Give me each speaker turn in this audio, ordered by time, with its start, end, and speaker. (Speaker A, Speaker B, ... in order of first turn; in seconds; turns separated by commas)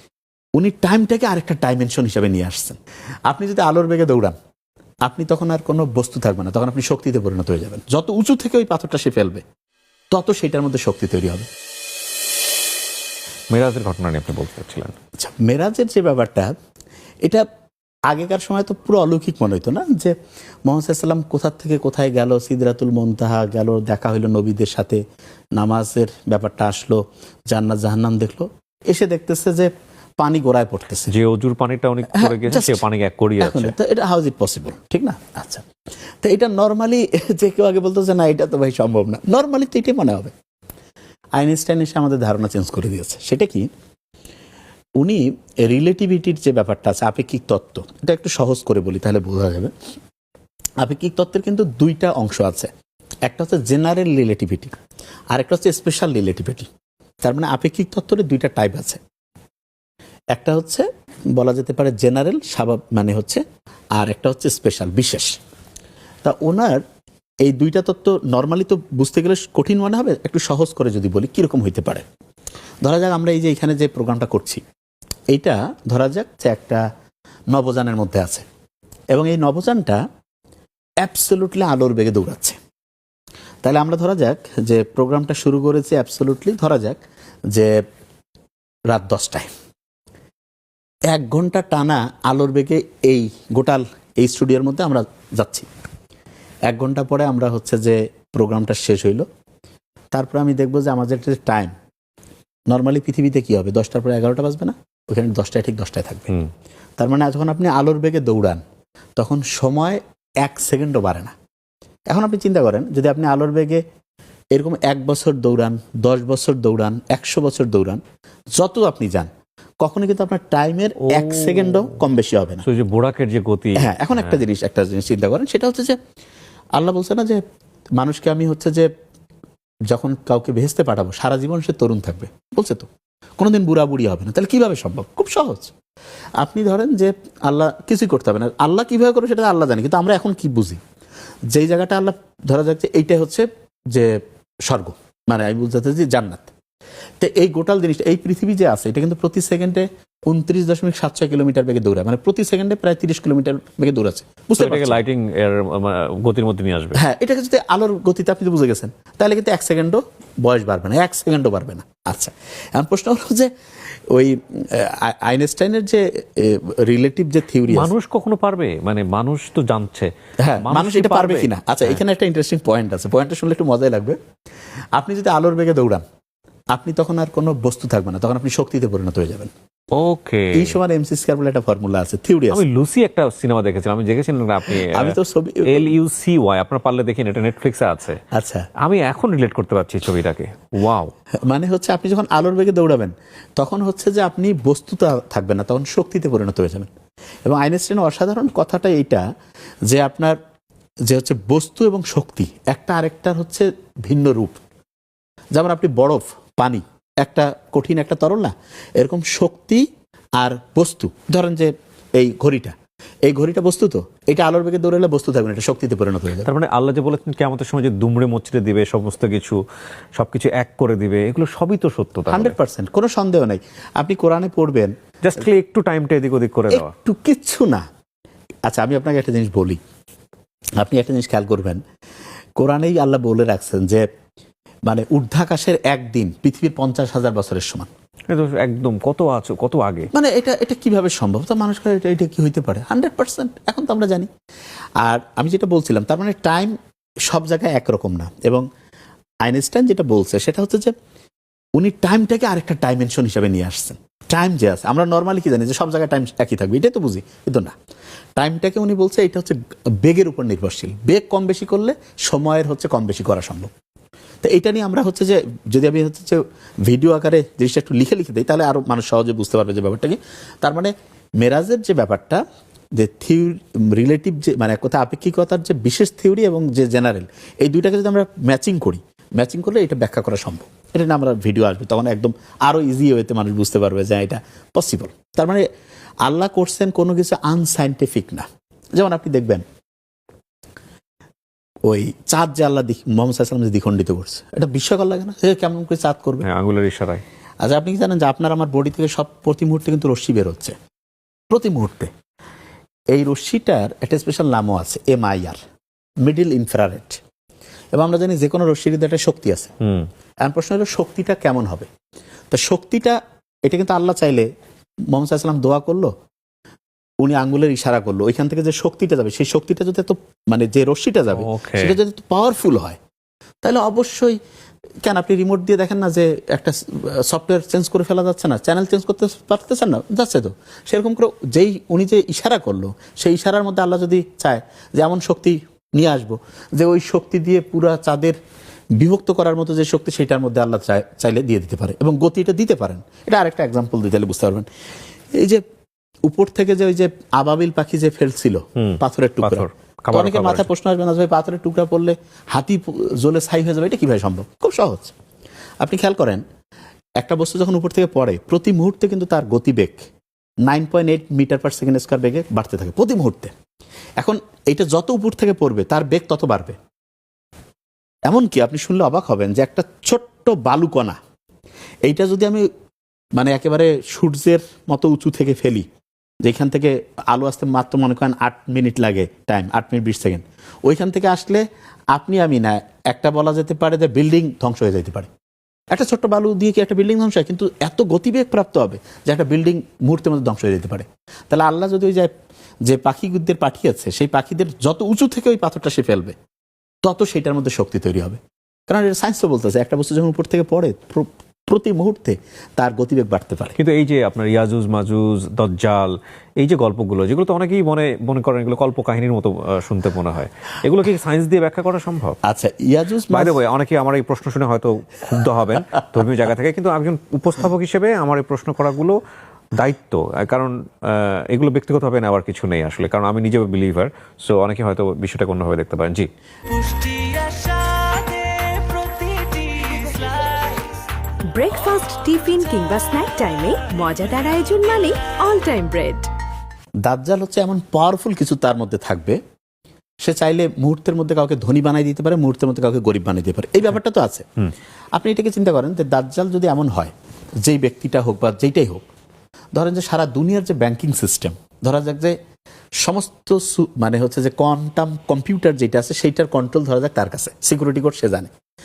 Speaker A: 0.6-4.4, Speaker A: 5.0-9.4, Speaker A: 10.1-11.5, Speaker B: 13.5-14.9, Speaker A: 15.2-16.5, Speaker A: 18.1-20.1, Speaker A: 20.7-25.0, Speaker A: 25.6-31.1, Speaker B: 31.1-33.7, Speaker A: 32.1-32.8, Speaker A: 33.4-35.7, Speaker A: 36.2-40.3, Speaker A: 41.4-43.7, Speaker A: 45.0-49.7, Speaker A: 50.8-52.7, Speaker A: 53.3-54.8, Speaker A: 55.3-56.7, Speaker A: 57.2-59.0, Speaker A: 60.3-63.4, Speaker A: 64.0-65.4, Speaker A: 66.2-66.8, Speaker A: 67.4-72.0, Speaker A: 72.8-74.6, Speaker A: 75.3-76.8, Speaker A: 77.5-78.5, Speaker A: 79.1-80.0, Speaker A: 81.0-82.6, Speaker A: 83.6-87.0, Speaker A: 87.5-87.8, Speaker A: 88.9-89.5, Speaker A: 91.1-95.7, Speaker A: 96.7-99.2, Speaker A: 100.1-101.7, Speaker A: 102.7-106.4, Speaker A: 107.0-108.6, Speaker A: 109.2-111.3, Speaker A: 112.1-113.8, Speaker A: 114.5-118.0, Speaker A: 118.5-119.3, Speaker A: 119.8-122.7, Speaker B: 121.1-122.0, Speaker B: 122.6-124.4, Speaker A: 123.8-126.0, Speaker A: 126.8-127.4, Speaker A: 128.0-128.9, Speaker A: 129.9-132.9, Speaker A: 133.4-135.7, Speaker A: 136.4-140.8, Speaker A: 141.5-146.5, Speaker A: 147.2-155.0, Speaker B: 154.6-157.0, Speaker A: 156.9-163.5, Speaker A: 164.1-167.9, Speaker B: 167.7-172.0, Speaker A: 170.4-174.2, Speaker A: 174.9-176.0, Speaker A: 176.7-179.5, Speaker B: 179.9-180.8, Speaker A: 180.5-182.6, Speaker B: 182.5-188.2, Speaker A: 184.8-185.9, Speaker A: 188.3-188.7, Speaker B: 188.8-191.1, Speaker A: 191.4-196.9, Speaker A: 197.4-199.2, Speaker A: 199.9-200.4, Speaker A: 201.1-204.6, Speaker A: 205.5-209.9, Speaker A: 210.4-216.5, Speaker B: 216.4-219.6, Speaker B: 220.2-222.6, Speaker A: 222.3-224.9, Speaker B: 225.2-226.9, Speaker A: 226.7-227.8, Speaker A: 228.7-229.8, Speaker A: 230.8-231.8, Speaker A: 232.6-234.1, Speaker A: 234.9-237.9, Speaker B: 238.3-240.1, Speaker A: 240.1-244.3, Speaker A: 245.0-246.8, Speaker A: 247.3-248.7, Speaker A: 249.4-250.9, Speaker A: 251.8-257.7, Speaker A: 258.4-263.7, Speaker A: 264.4-272.4, Speaker A: 273.0-285.6, Speaker A: 286.2-289.6, Speaker A: 291.9-296.5, Speaker B: 296.4-297.2, Speaker A: 297.6-300.8, Speaker A: 301.5-302.1, Speaker A: 303.1-305.6, Speaker A: 306.2-307.2, Speaker A: 307.9-309.7, Speaker B: 309.8-310.1, Speaker A: 310.4-311.9, Speaker A: 312.5-314.5, Speaker A: 315.1-316.1, Speaker A: 317.2-323.0, Speaker B: 321.4-322.0, Speaker A: 323.6-324.4, Speaker A: 325.0-338.4, Speaker A: 339.0-344.7, Speaker A: 345.4-345.6, Speaker A: 346.3-355.1, Speaker B: 348.8-350.7, Speaker A: 355.8-356.4, Speaker A: 357.2-360.1, Speaker A: 360.7-363.5, Speaker A: 364.2-366.8, Speaker A: 368.3-371.2, Speaker A: 372.1-372.7, Speaker A: 373.4-375.9, Speaker A: 376.4-385.3, Speaker A: 385.9-392.3, Speaker A: 392.9-396.4, Speaker A: 397.0-403.8, Speaker B: 403.8-412.4, Speaker A: 412.4-413.6, Speaker B: 413.3-419.2, Speaker B: 419.7-426.3, Speaker C: 426.7-431.0, Speaker C: 431.5-436.3, Speaker A: 437.0-439.4, Speaker A: 440.2-444.5, Speaker A: 445.1-447.1, Speaker A: 447.6-449.1, Speaker A: 449.7-452.4, Speaker A: 453.0-458.5